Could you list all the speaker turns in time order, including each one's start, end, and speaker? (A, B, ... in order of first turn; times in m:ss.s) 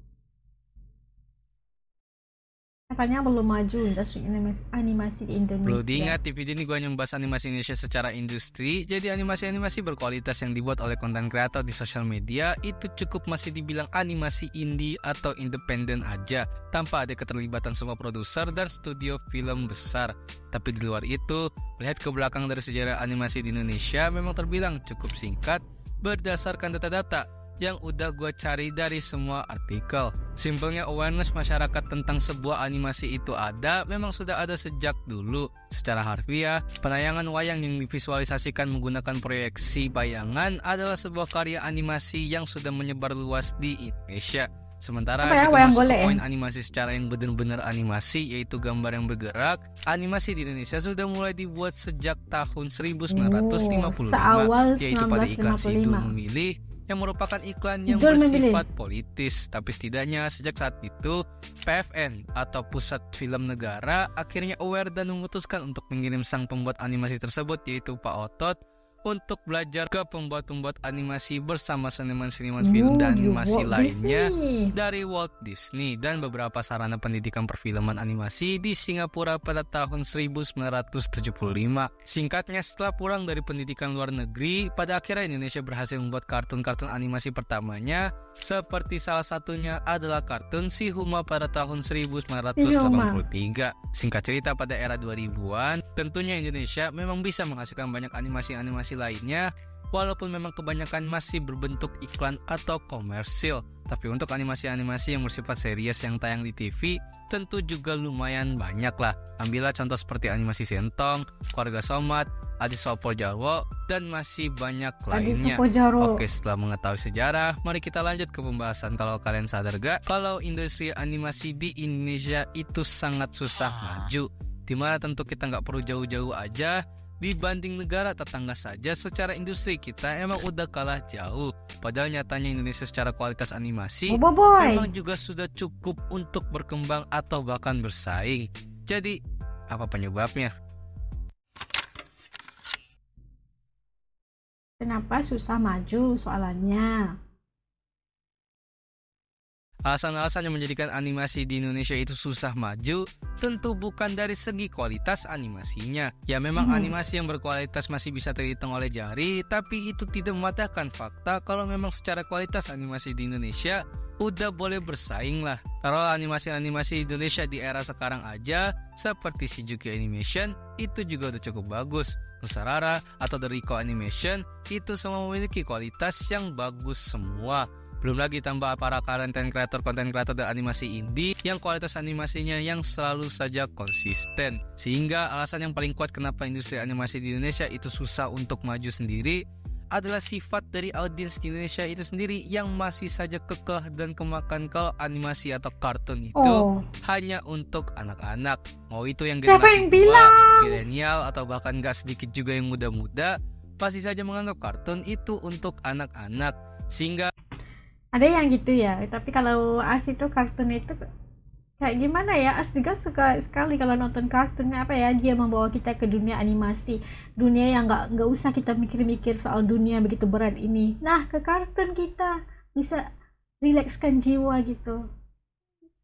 0:02.9-0:06.2 A
0:05.7-1:08.6 B
0:45.2-0:46.2 A
0:53.1-0:56.1 A
0:57.9-0:58.6 A
1:09.1-2:19.2 B
1:12.6-1:14.7 A
1:32.6-1:33.2 A
1:55.1-1:56.2 A
2:14.1-2:14.9 A
2:19.7-2:20.5 B
2:24.8-2:27.1 A
2:29.9-3:09.4 B
2:36.6-2:36.9 A
3:10.0-3:27.3 B
3:16.4-3:16.8 A
3:19.5-3:20.8 A
3:28.2-3:31.0 A
3:31.8-3:43.0 A
3:43.6-3:45.0 A